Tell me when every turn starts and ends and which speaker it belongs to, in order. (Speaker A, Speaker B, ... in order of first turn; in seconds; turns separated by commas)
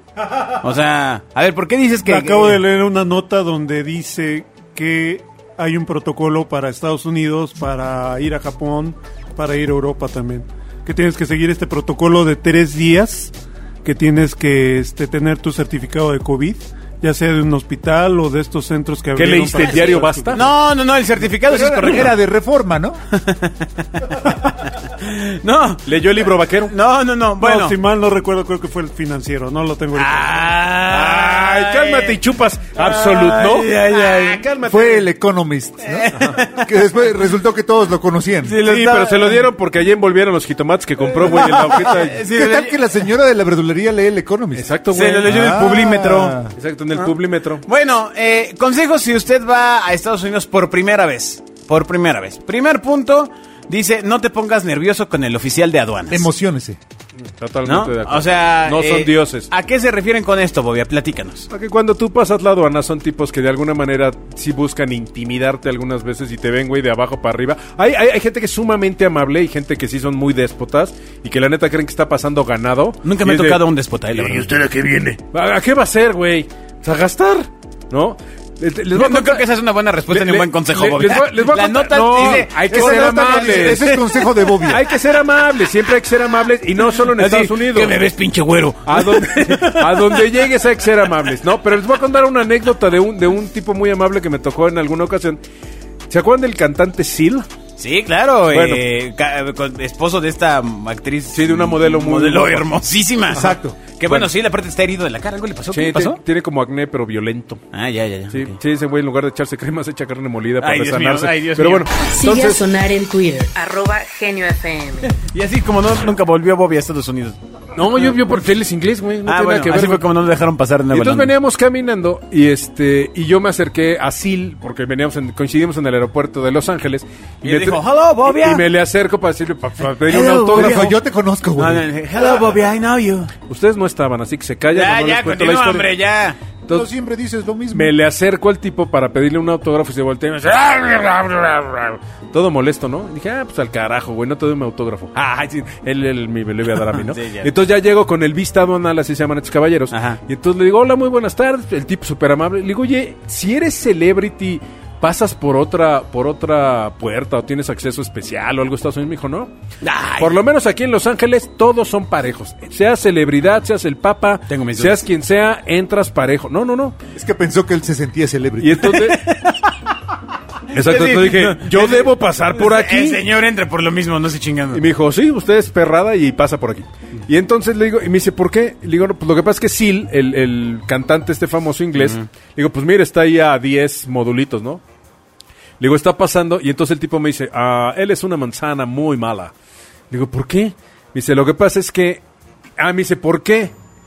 Speaker A: 0.5-2.6, Speaker B: 2.0-20.4, Speaker C: 19.2-20.5, Speaker A: 20.3-22.2, Speaker D: 21.5-23.0, Speaker A: 23.1-25.9, Speaker C: 25.9-26.7, Speaker A: 26.7-27.8, Speaker B: 27.4-30.7, Speaker A: 29.9-32.2, Speaker C: 30.8-35.0, Speaker A: 32.8-34.5, Speaker D: 34.7-38.6, Speaker A: 35.8-36.8, Speaker A: 38.4-39.5, Speaker C: 38.6-42.2, Speaker A: 41.2-42.9, Speaker D: 41.3-44.7, Speaker C: 44.5-45.6, Speaker A: 44.9-46.4, Speaker D: 45.2-46.5, Speaker C: 46.5-47.6, Speaker A: 47.6-56.3, Speaker D: 56.1-56.8, Speaker C: 57.4-59.5, Speaker A: 57.6-61.5, Speaker C: 61.5-73.6, Speaker A: 73.0-74.5, Speaker C: 74.1-79.4, Speaker A: 78.9-84.7, Speaker C: 80.1-84.0, Speaker D: 82.2-84.8, Speaker C: 84.7-88.0, Speaker A: 87.0-90.5, Speaker C: 88.8-95.4, Speaker C: 96.1-97.5, Speaker A: 97.8-106.2, Speaker C: 98.5-98.8, Speaker C: 101.3-102.7, Speaker D: 103.3-103.8, Speaker C: 105.7-107.6, Speaker A: 107.7-108.6, Speaker C: 108.3-112.6, Speaker A: 110.6-111.9, Speaker E: 112.1-115.1, Speaker A: 115.0-117.4, Speaker C: 117.8-120.0, Speaker A: 119.2-121.3, Speaker C: 120.9-130.9, Speaker A: 127.4-128.6, Speaker A: 130.0-130.9, Speaker D: 130.5-131.8, Speaker A: 131.6-133.3, Speaker C: 133.5-135.9, Speaker A: 134.7-136.4, Speaker D: 136.7-137.9, Speaker C: 137.7-159.5, Speaker A: 146.9-147.5, Speaker A: 149.9-150.2, Speaker A: 159.8-160.4, Speaker C: 160.2-166.9, Speaker A: 164.5-165.0, Speaker D: 167.1-169.0, Speaker C: 168.6-169.3, Speaker A: 168.8-169.7, Speaker C: 170.7-173.2, Speaker A: 170.7-174.8, Speaker C: 174.7-184.8, Speaker A: 181.9-182.2, Speaker C: 185.8-189.5, Speaker C: 190.1-192.2, Speaker C: 192.8-193.7